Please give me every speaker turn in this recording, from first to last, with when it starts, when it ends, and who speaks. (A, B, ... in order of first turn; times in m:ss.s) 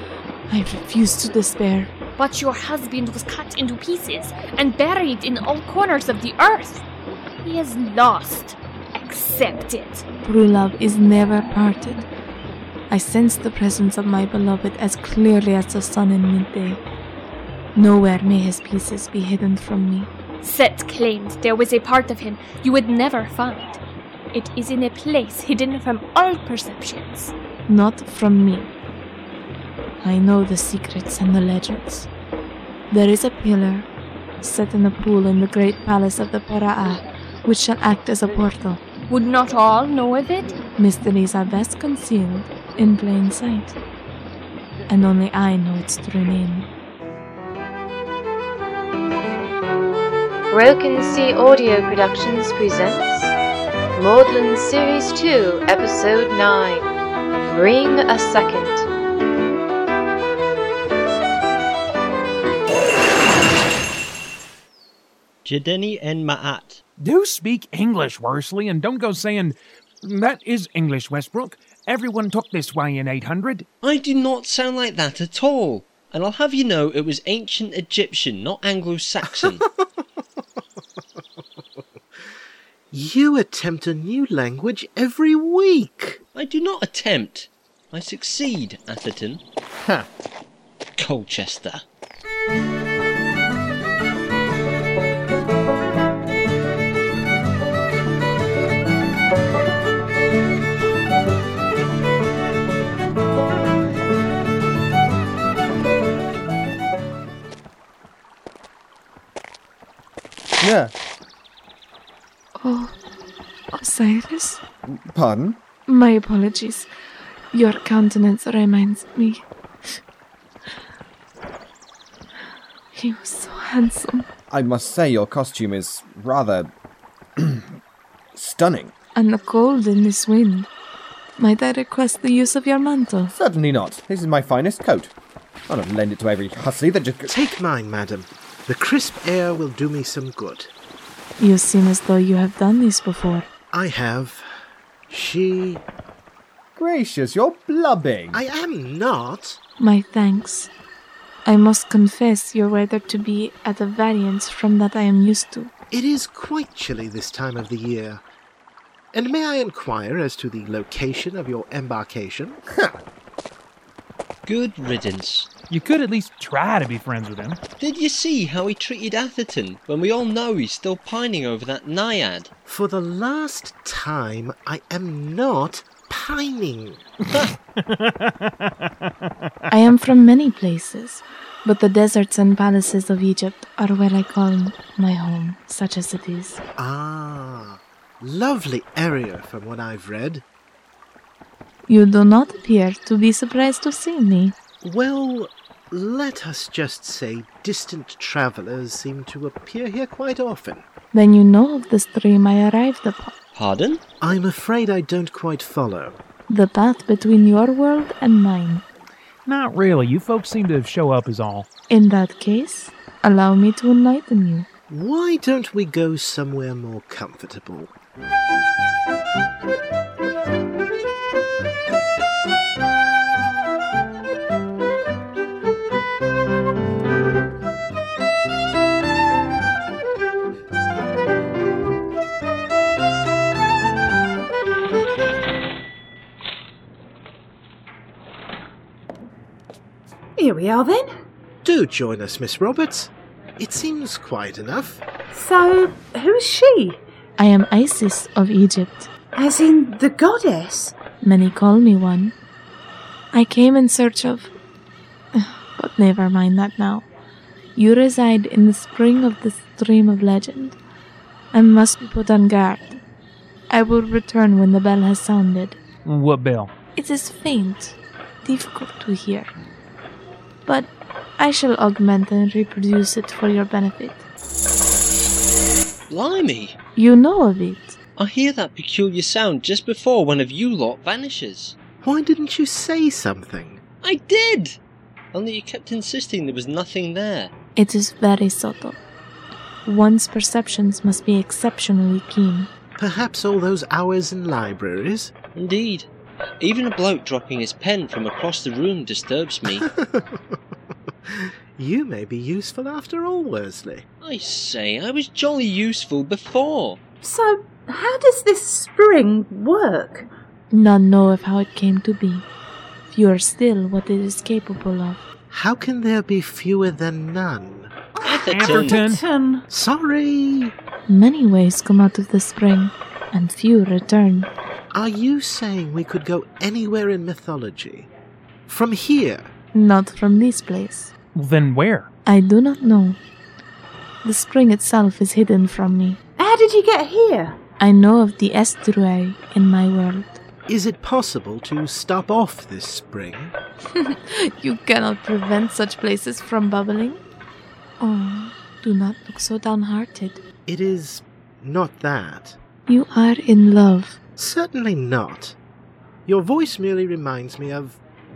0:00.5-0:01.9 A
0:02.2-0:06.8 B
0:07.4-0:10.0 B
0:10.2-0:12.1 A
0:12.9-0:16.8 A
0:17.7-0:20.1 A
0:20.4-0:23.8 B
0:24.3-0:27.3 B
0:27.7-0:28.7 A
0:30.0-0:32.1 A
0:32.9-0:33.9 A
0:34.4-0:38.8 A
0:39.1-0:40.5 B
0:40.8-0:43.8 A
0:44.9-0:46.7 A
0:50.5-0:53.3 C
0:54.0-0:56.8 C
0:57.5-0:58.8 C
1:05.4-1:06.8 D
1:07.0-1:13.6 E
1:13.8-1:19.6 D
1:19.4-1:19.8 F
1:22.9-1:26.2 F
1:26.3-1:29.4 D
1:31.0-1:31.8 D
1:50.6-1:50.9 G
1:52.6-1:53.0 A
1:53.7-1:54.6 A
1:54.9-1:55.6 G
1:55.9-1:56.9 A
1:57.5-1:59.5 A
2:02.9-2:04.2 A
2:04.5-2:06.7 G
2:07.4-2:07.6 G
2:08.3-2:08.9 G
2:09.1-2:10.7 A
2:11.4-2:13.3 A
2:13.3-2:15.1 G
2:15.7-2:17.4 G
2:17.3-2:20.7 F
2:21.4-2:23.5 A
2:23.7-2:24.4 F
2:25.1-2:25.8 F
2:26.8-2:28.4 G
2:28.3-2:29.6 F
2:29.8-2:30.7 A
2:31.4-2:35.7 A
2:35.9-2:38.2 F
2:39.1-2:42.6 F
2:44.4-2:45.5 D
2:45.7-2:47.6 E
2:47.8-2:52.5 D
2:52.6-2:57.0 F
2:57.9-2:58.5 E
2:59.7-3:06.6 A
3:06.8-3:10.4 F
3:11.9-3:14.5 A
3:14.8-3:20.8 F
3:21.1-3:23.3 A
3:23.5-3:24.0 D
3:24.2-3:26.2 F
3:26.5-3:28.8 A
3:29.4-3:31.7 E
3:31.9-3:34.7 A
3:34.9-3:37.9 F
4:00.4-4:01.1 H
4:01.6-4:05.0 F
4:05.3-4:07.0 H
4:07.4-4:09.1 A
4:09.4-4:11.0 H
4:11.2-4:12.3 A
4:13.3-4:14.5 A
4:15.3-4:17.0 A
4:17.7-4:20.8 A
4:21.5-4:23.0 A
4:23.7-4:25.8 A
4:26.0-4:26.7 E
4:27.0-4:29.5 A
4:30.6-4:34.2 A
4:36.1-4:36.8 D
4:37.0-4:38.0 A
4:38.2-4:41.8 D
4:42.0-4:43.8 F
4:44.0-4:44.8 D
4:45.3-4:47.5 D
4:47.8-4:49.0 A
4:49.8-4:52.7 A
4:53.0-4:55.3 F
4:55.5-4:56.1 D
4:56.6-4:59.8 D
4:59.7-5:00.6 F
5:01.3-5:04.0 F
5:04.2-5:07.0 D
5:07.2-5:10.3 H
5:10.7-5:12.5 A
5:13.1-5:15.2 A
5:15.5-5:17.9 F
5:18.1-5:19.6 H
5:18.2-5:19.2 D
5:18.5-5:19.2 E
5:19.7-5:20.7 F
5:21.1-5:24.5 A
5:24.9-5:28.1 F
5:28.7-5:29.5 F
5:29.7-5:31.1 A
5:31.3-5:32.1 E
5:32.2-5:33.2 A
5:34.2-5:36.2 A
5:36.4-5:37.6 H
5:37.8-5:40.4 A
5:40.7-5:43.5 F
5:43.9-5:47.2 A
5:48.0-5:50.4 A
5:50.6-5:52.6 F
5:52.8-5:54.2 A
5:54.4-5:55.6 F
5:56.3-5:58.0 F